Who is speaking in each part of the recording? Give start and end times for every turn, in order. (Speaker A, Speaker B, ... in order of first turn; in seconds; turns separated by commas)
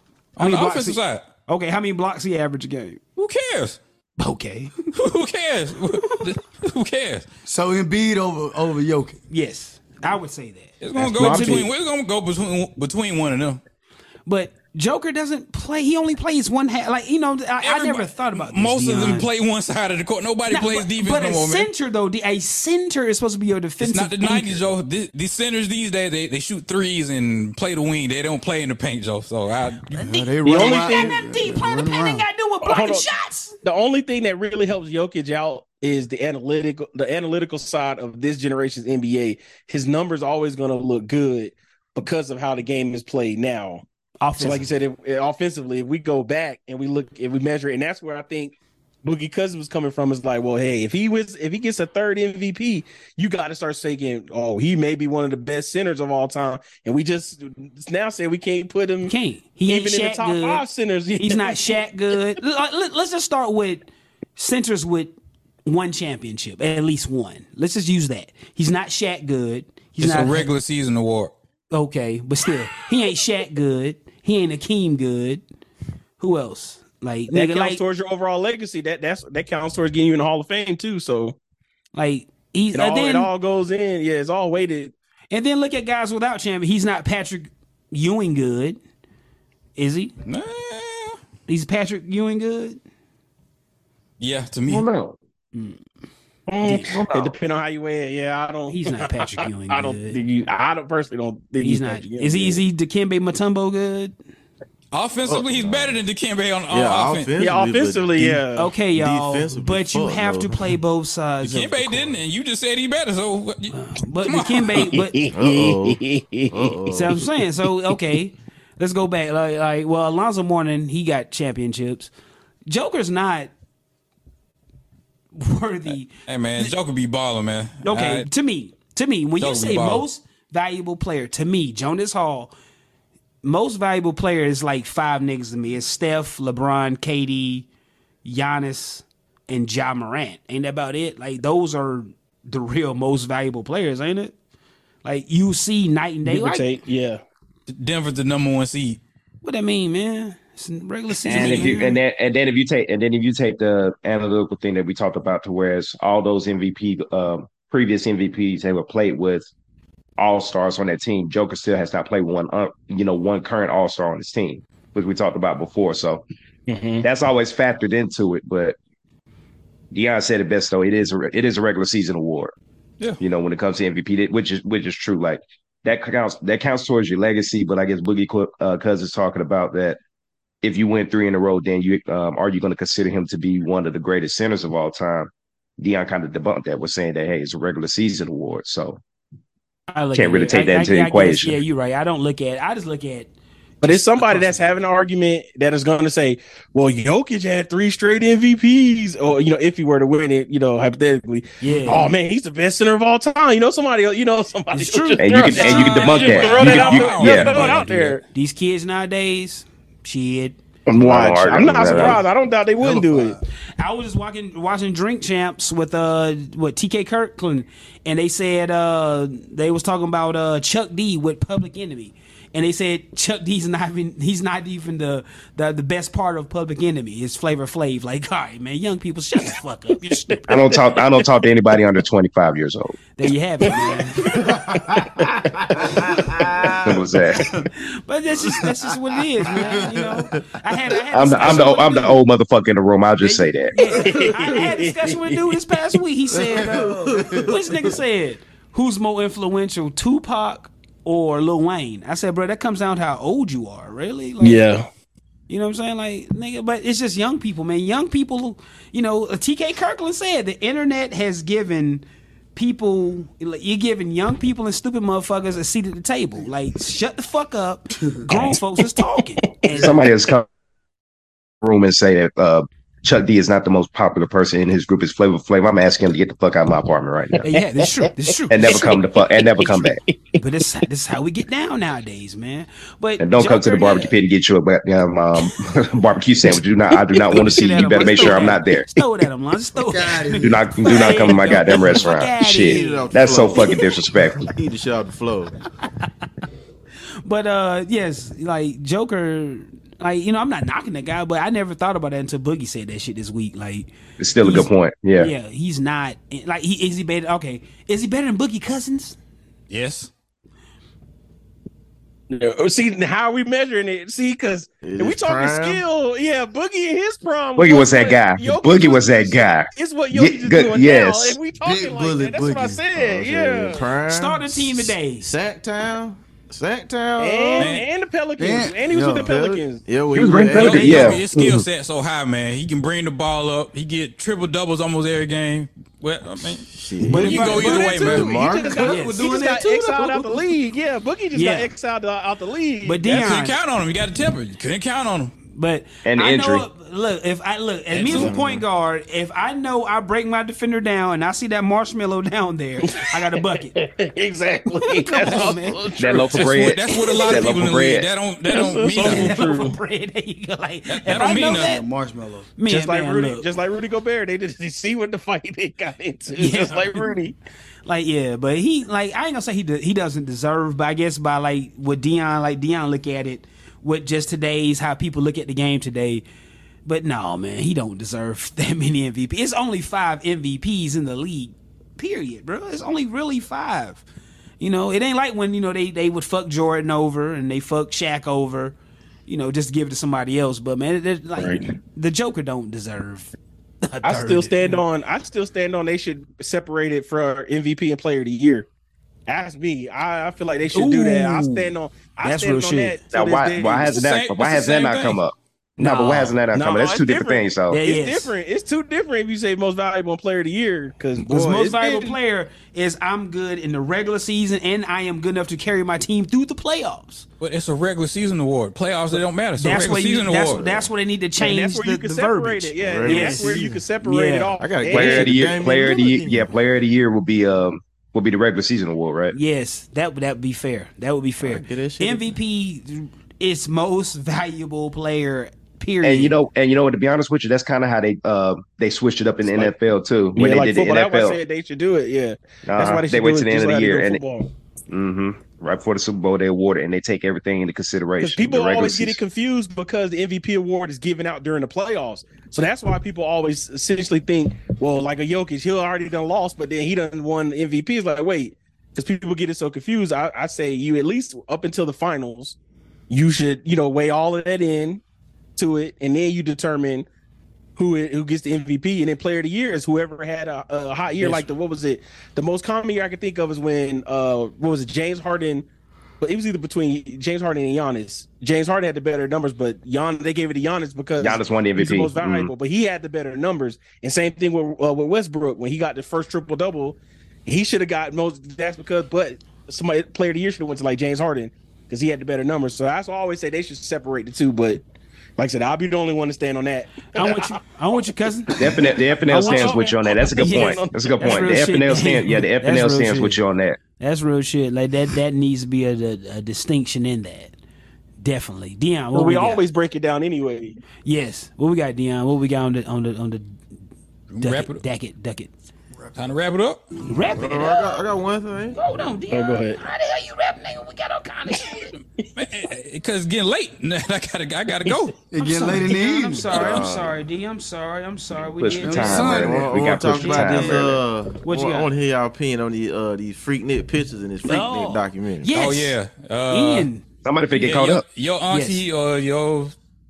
Speaker A: 0.3-1.3, Speaker B: 0.4-3.0, Speaker A: 3.1-3.8, Speaker B: 4.2-4.8, Speaker A: 4.9-7.2, Speaker C: 7.5-9.2, Speaker B: 9.3-11.7, Speaker A: 10.8-13.6, Speaker D: 11.0-11.7, Speaker B: 14.2-19.3, Speaker A: 17.6-21.7, Speaker B: 20.5-24.6, Speaker A: 23.8-29.9, Speaker B: 29.9-33.5, Speaker C: 30.0-32.3, Speaker D: 30.4-31.2, Speaker D: 32.6-33.1, Speaker D: 33.6-43.8, Speaker B: 44.2-44.7, Speaker D: 44.4-59.1, Speaker B: 59.1-60.6, Speaker D: 59.7-61.8, Speaker B: 61.2-65.1, Speaker B: 65.6-70.5, Speaker A: 70.0-71.3, Speaker B: 71.7-75.4, Speaker B: 76.2-77.8, Speaker D: 77.3-81.3, Speaker B: 81.9-83.3, Speaker D: 82.7-84.9, Speaker B: 85.3-88.8, Speaker B: 89.8-90.1, Speaker A: 90.2-91.2, Speaker B: 91.5-92.8, Speaker A: 94.2-94.8, Speaker E: 94.7-95.2, Speaker B: 95.5-95.8, Speaker D: 96.5-102.6, Speaker B: 96.6-96.9, Speaker E: 96.7-97.3, Speaker B: 98.7-100.2, Speaker B: 101.6-104.1, Speaker A: 104.9-107.3, Speaker F: 105.3-106.0, Speaker F: 106.7-110.7, Speaker D: 107.4-108.7, Speaker B: 108.5-112.2, Speaker A: 111.4-114.9, Speaker B: 113.7-115.2, Speaker D: 114.9-116.8, Speaker F: 115.3-117.2, Speaker B: 116.9-122.1, Speaker B: 122.7-123.5, Speaker B: 125.3-126.7, Speaker A: 126.3-128.3, Speaker B: 127.8-132.5, Speaker A: 129.4-130.0, Speaker B: 133.4-137.7, Speaker B: 138.2-144.3, Speaker B: 145.0-146.8, Speaker D: 146.2-147.2, Speaker A: 147.7-149.0, Speaker B: 149.4-152.0, Speaker E: 151.3-159.5, Speaker E: 160.2-166.2, Speaker D: 166.7-167.0, Speaker E: 167.0-168.8, Speaker E: 169.9-172.5, Speaker E: 173.2-180.0, Speaker E: 180.6-189.0, Speaker B: 189.9-193.3, Speaker E: 190.1-191.6, Speaker D: 193.8-208.2, Speaker B: 193.8-194.7, Speaker B: 201.6-202.1, Speaker B: 204.7-210.6, Speaker E: 205.2-207.5, Speaker A: 206.2-207.8, Speaker E: 210.9-212.2, Speaker D: 210.9-213.4, Speaker B: 211.9-212.2, Speaker C: 212.8-213.4, Speaker B: 213.8-230.6, Speaker E: 230.5-232.9, Speaker B: 233.2-234.3, Speaker D: 233.7-234.5, Speaker E: 236.8-237.5, Speaker B: 237.7-242.2, Speaker E: 241.1-243.8, Speaker B: 243.2-254.7, Speaker D: 243.9-245.5, Speaker F: 246.3-247.9, Speaker D: 254.4-254.9, Speaker B: 255.5-262.0, Speaker B: 262.5-270.0, Speaker E: 269.7-270.5, Speaker E: 271.6-277.5, Speaker B: 277.4-278.8, Speaker D: 277.5-278.1, Speaker E: 278.5-280.0, Speaker D: 278.6-280.0, Speaker B: 280.4-284.1, Speaker E: 283.2-288.9, Speaker B: 287.4-293.8, Speaker D: 288.0-288.5, Speaker C: 289.9-290.7, Speaker E: 290.4-294.5, Speaker F: 291.7-293.8, Speaker F: 294.4-295.5, Speaker B: 297.2-303.9, Speaker E: 304.2-305.3, Speaker B: 304.4-309.1, Speaker A: 309.7-310.1, Speaker D: 312.3-323.8, Speaker F: 314.8-315.8, Speaker E: 317.6-321.4, Speaker C: 321.6-322.8, Speaker F: 322.9-327.8, Speaker B: 324.0-325.3, Speaker D: 327.2-329.8, Speaker A: 327.6-327.9, Speaker C: 328.4-329.5, Speaker F: 329.3-331.2, Speaker E: 330.1-331.6, Speaker A: 330.5-338.4, Speaker B: 330.6-331.2, Speaker F: 336.7-340.4, Speaker B: 337.1-338.2, Speaker D: 337.3-343.3, Speaker B: 338.8-339.6, Speaker B: 341.3-341.7, Speaker B: 342.8-343.6, Speaker A: 343.1-345.3, Speaker B: 345.5-353.7, Speaker E: 346.0-346.7, Speaker A: 347.9-348.3, Speaker F: 348.1-348.6, Speaker D: 352.9-357.4, Speaker B: 354.9-355.8, Speaker E: 356.0-358.1, Speaker A: 356.3-359.4, Speaker D: 358.5-359.8, Speaker B: 358.9-361.9, Speaker A: 360.9-361.8, Speaker C: 361.2-362.5, Speaker B: 362.6-363.4, Speaker D: 362.7-367.3, Speaker B: 366.4-367.1, Speaker B: 367.9-376.2, Speaker B: 376.8-384.0, Speaker B: 384.6-388.8, Speaker B: 389.3-393.3, Speaker D: 391.4-391.6, Speaker B: 393.8-394.8, Speaker D: 394.0-398.7, Speaker D: 399.3-403.9, Speaker B: 400.7-401.7, Speaker B: 402.2-403.0, Speaker E: 403.1-407.8, Speaker A: 403.9-405.2, Speaker B: 405.8-406.4, Speaker D: 406.5-412.1, Speaker B: 407.7-408.3, Speaker B: 411.2-417.2, Speaker A: 417.4-420.7, Speaker B: 419.6-424.5, Speaker F: 420.6-420.9, Speaker D: 421.4-425.5, Speaker F: 422.8-423.8, Speaker F: 424.6-426.5, Speaker E: 424.9-429.4, Speaker B: 429.3-436.3, Speaker F: 431.4-432.3, Speaker E: 436.0-441.4, Speaker D: 440.4-444.5, Speaker E: 442.6-444.2, Speaker E: 444.9-449.2, Speaker D: 448.2-462.6, Speaker D: 463.1-465.0, Speaker D: 465.6-467.1, Speaker D: 467.8-475.6, Speaker D: 476.2-494.8, Speaker E: 481.2-482.5, Speaker D: 495.4-497.6, Speaker B: 497.1-498.6, Speaker D: 498.5-501.5, Speaker E: 498.6-503.8, Speaker B: 499.3-499.8, Speaker B: 500.4-503.4, Speaker B: 504.0-507.5, Speaker B: 508.2-509.6, Speaker D: 509.1-510.8, Speaker B: 511.0-513.5, Speaker A: 514.3-514.8, Speaker B: 514.4-515.5, Speaker A: 516.1-516.8, Speaker B: 517.0-518.0, Speaker F: 517.3-518.8, Speaker B: 518.7-521.9, Speaker D: 519.3-519.8, Speaker A: 521.9-525.2, Speaker C: 525.3-526.5, Speaker B: 525.4-529.5, Speaker E: 526.5-527.2, Speaker E: 528.5-531.0, Speaker C: 528.8-529.8, Speaker F: 529.2-535.5, Speaker B: 530.1-530.9, Speaker B: 531.4-531.9, Speaker B: 534.4-536.0, Speaker A: 535.5-536.9, Speaker B: 536.5-537.0, Speaker E: 537.2-538.0, Speaker A: 537.5-539.7, Speaker B: 538.5-538.8